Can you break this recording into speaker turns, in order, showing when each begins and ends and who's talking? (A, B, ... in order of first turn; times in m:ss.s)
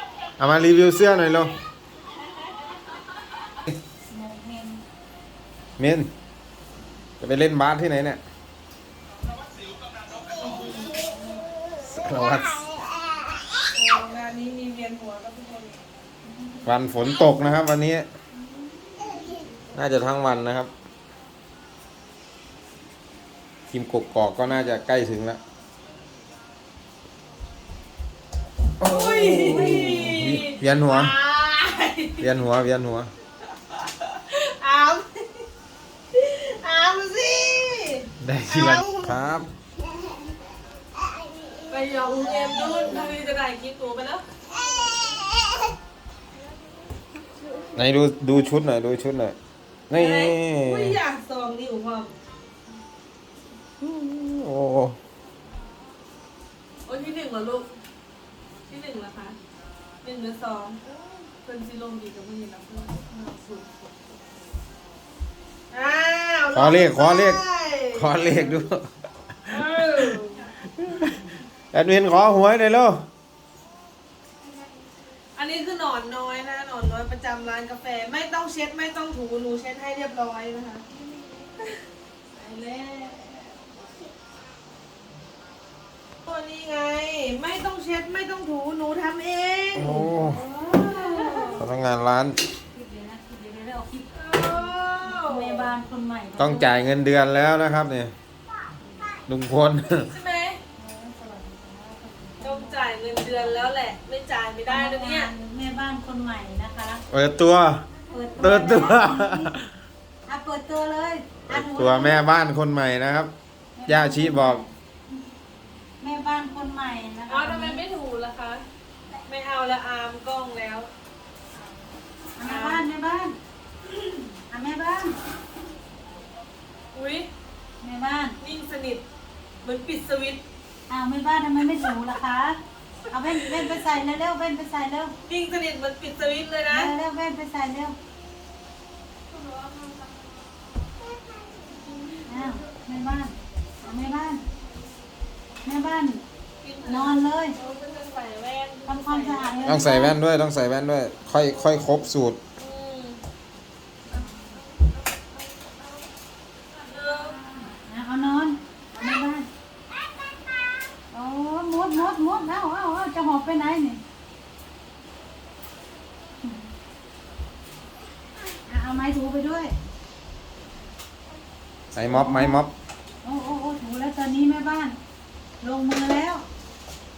0:00.4-0:01.6 A
0:04.1-0:04.8 B
0:05.8-0:06.1 A
0:07.2-0:08.2 A
0:10.4-0:11.0 C
0:11.8-0:12.6 A
0:13.7-0:15.8 C
0:16.6-0:18.1 A
0:19.7-0:20.7 A
0:23.7-0:25.4 A
0:28.8-0:31.1 A
0:28.8-0:32.3 C
0:32.2-0:33.1 A
0:33.8-0:35.4 C
0:36.1-0:38.1 C
0:38.2-0:39.5 A
0:41.7-0:44.2 C
0:47.8-0:49.4 A
0:49.9-0:51.0 A
0:49.9-0:52.1 C
0:53.8-0:55.0 A
0:56.8-0:57.7 C
0:58.7-0:59.4 C
1:00.0-1:04.2 C
1:05.7-1:08.6 C
1:06.5-1:07.4 A
1:07.9-1:08.9 A
1:09.5-1:10.4 C
1:10.8-1:11.1 A
1:11.7-1:13.0 A
1:15.4-1:20.8 C
1:22.3-1:23.6 C
1:26.2-1:30.0 C
1:29.8-1:30.4 A
1:29.8-1:31.6 B
1:30.6-1:31.6 C
1:31.6-1:32.4 A
1:32.7-1:36.7 B
1:34.1-1:35.7 C
1:36.4-1:38.1 A
1:39.3-1:40.1 A
1:40.1-1:40.6 C
1:40.8-1:43.7 B
1:42.4-1:45.3 C
1:44.7-1:47.0 B
1:47.1-1:47.8 A
1:48.1-1:49.5 B
1:48.4-1:49.6 A
1:50.3-1:52.2 B
1:51.5-1:53.3 A
1:53.8-1:54.7 B
1:53.9-1:54.6 A
1:56.0-1:57.8 B
1:57.3-1:58.6 C
1:59.2-2:00.9 C
2:02.4-2:03.4 B
2:02.4-2:02.8 C
2:04.5-2:05.2 B
2:06.9-2:07.3 C
2:07.8-2:08.4 B
2:08.4-2:09.0 C
2:09.6-2:10.4 C
2:10.9-2:12.6 B
2:13.1-2:15.1 B
2:15.2-2:16.9 C
2:16.7-2:18.0 B
2:19.3-2:20.2 C
2:22.0-2:22.6 C
2:22.2-2:24.4 B
2:25.6-2:26.2 B
2:26.6-2:29.6 C
2:26.8-2:27.6 B
2:28.8-2:30.2 B
2:29.6-2:32.4 A
2:32.6-2:33.2 C
2:34.1-2:34.4 C
2:36.8-2:37.4 C
2:37.3-2:39.5 B
2:41.1-2:44.0 B
2:48.6-2:49.8 B
2:51.9-2:52.7 A
2:52.0-2:52.6 B
2:53.2-2:55.0 B
2:55.6-2:56.4 B